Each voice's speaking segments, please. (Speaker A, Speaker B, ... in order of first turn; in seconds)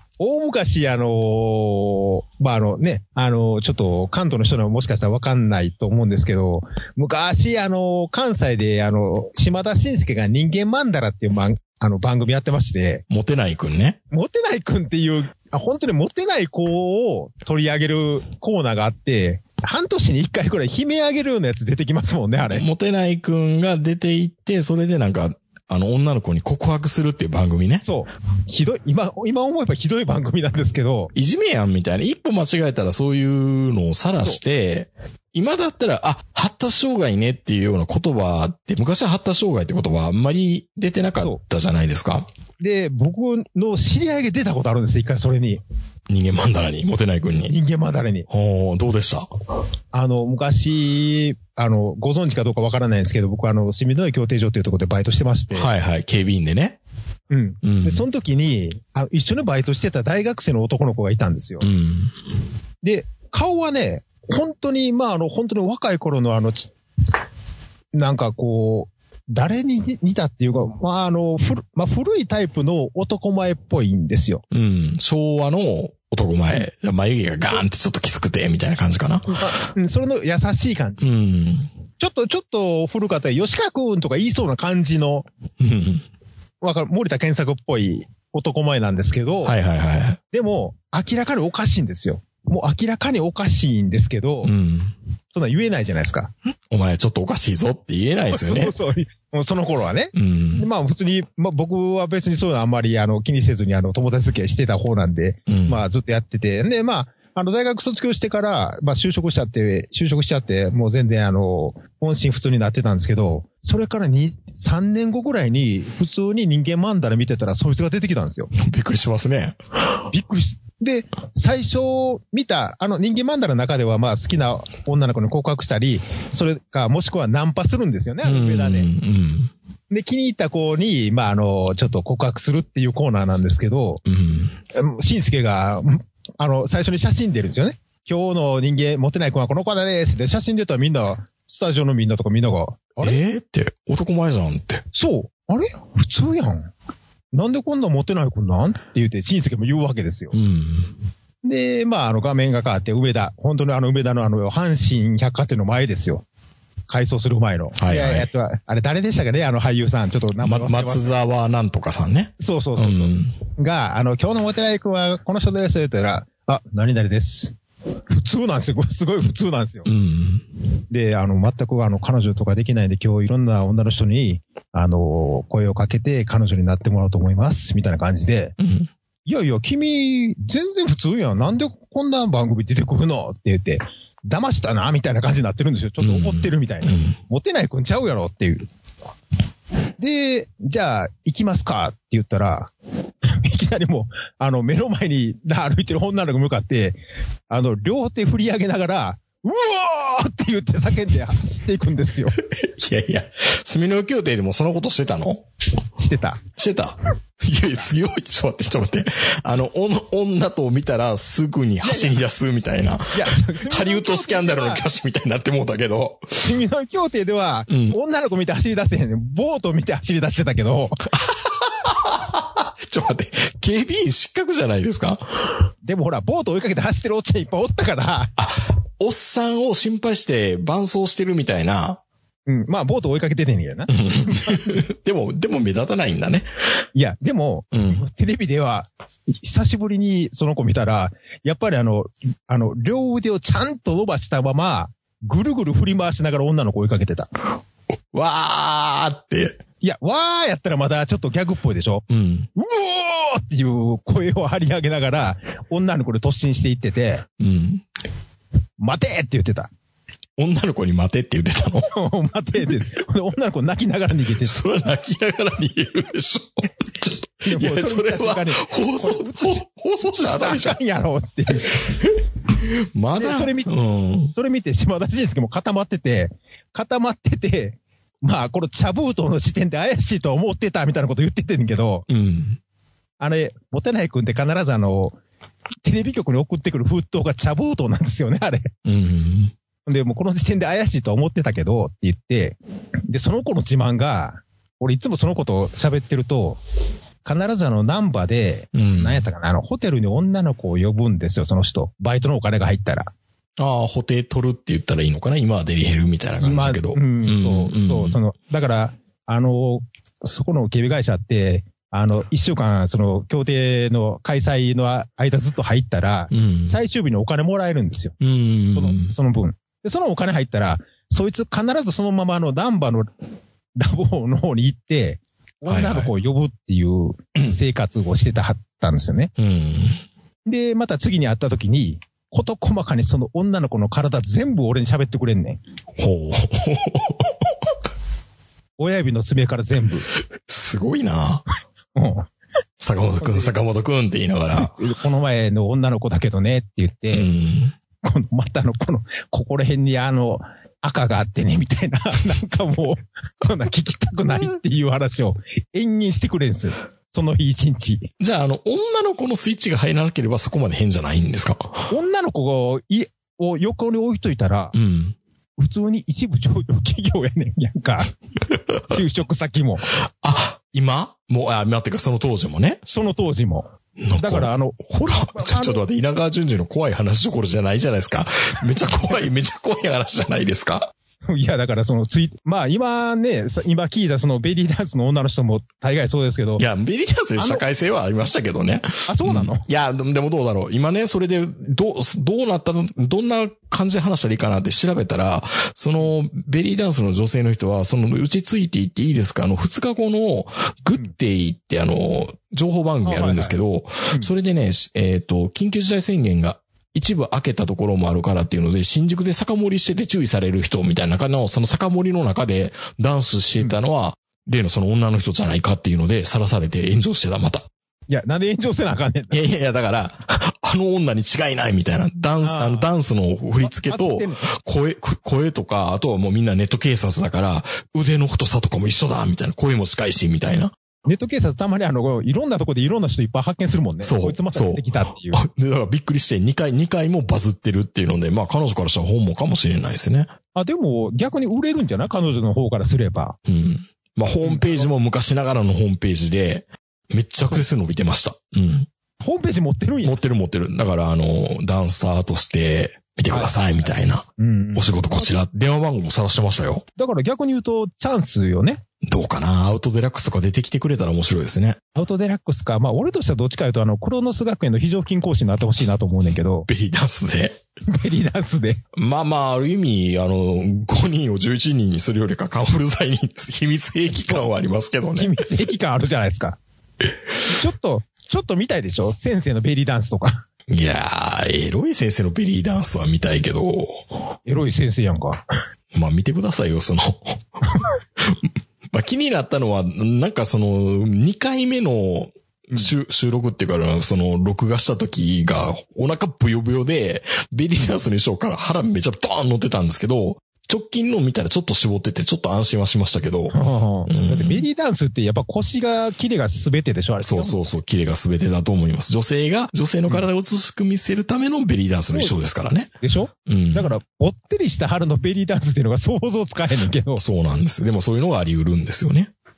Speaker A: 0.2-13.0, 14.1-22.6, 27.8-31.1, 42.6-45.6, 47.5-48.3, 49.9-55.7, 57.3-61.7, 62.8-66.7, 67.9-74.4, 79.3-81.1, 82.0-85.3, 86.6-89.5, 90.3-94.5, 95.3-96.3, 98.3-118.5, 120.1-128.9, 129.9-134.0, 134.7-143.2, 144.9-146.7, 147.3-150.3, 151.4-156.2, 156.9-161.1, 162.4-167.6, 168.1-169.9, 170.9-178.5, 179.2-188.7, 190.0-192.7, 193.2-197.0, 197.5-202.3, 206.0-206.4, 211.8-212.2, 213.1-214.8, 216.4-221.0, 225.8-228.3, 232.5-234.7, 236.9-238.9, 239.4-247.3, 249.8-252.0, 252.6-257.2, 258.8-259.7, 261.9-264.6, 267.4-269.6, 270.2-271.7, 273.2-273.7, 274.3-282.1, 283.2-285.1, 285.8-288.7, 289.9-292.6, 293.1-296.6, 297.2-303.1, 306.4-318.2, 318.7-323.1, 323.8-329.3, 330.4-335.6, 338.8-340.1, 341.9-342.3, 343.2-343.5, 344.5-347.3, 348.0-358.1, 361.9-364.7, 365.6-368.1, 368.9-369.9, 372.9-375.8, 381.3-386.6, 387.4-387.6, 389.1-389.6, 403.0-403.6, 418.1-419.4, 422.4-422.9, 423.6-424.5, 431.1-435.4, 440.5-443.4, 444.4-444.9, 449.2-450.1, 453.3-455.4, 457.0-458.8, 461.9-466.7, 467.9-468.8, 474.1-474.5, 475.1-476.6, 477.5-480.4, 484.5-485.4, 503.5-507.7, 513.0-517.2
Speaker B: 13.1-14.0, 22.5-27.8, 31.1-42.3, 46.1-47.5, 48.3-49.3, 55.5-56.8, 57.6-58.0, 61.6-62.1, 74.5-79.4, 81.0-81.7, 85.6-86.0, 89.4-90.2, 94.4-94.9, 96.7-98.7, 100.1-100.7, 105.5-105.8, 118.5-119.6, 128.2-129.5, 134.0-134.6, 143.0-144.8, 150.3-150.9, 157.8-158.3, 160.4-163.4, 169.8-170.4, 178.6-178.9, 186.0-187.2, 202.4-205.4, 206.6-216.5, 217.7-218.0, 221.2-225.2, 228.4-232.0, 233.9-236.5, 237.7-238.0, 248.1-249.6, 252.1-252.5, 257.4-257.8, 260.4-261.9, 264.4-270.8, 272.6-274.3, 282.1-282.6, 288.8-289.5, 298.7-299.2, 303.6-308.2, 316.3-316.8, 318.2-319.1, 325.7-326.1, 329.4-330.0, 335.9-337.3, 340.5-341.4, 342.8-344.7, 347.1-347.8, 358.2-361.9, 364.7-365.2, 370.1-372.8, 374.0-380.9, 386.6-417.7, 419.3-430.7, 434.0-440.3, 443.4-448.9, 450.0-456.8, 459.0-461.8, 466.7-467.6, 468.9-475.4, 480.7-484.0, 485.9-487.4, 488.2-503.5, 504.1-504.6, 507.2-512.9, 513.5-513.9, 517.2-519.3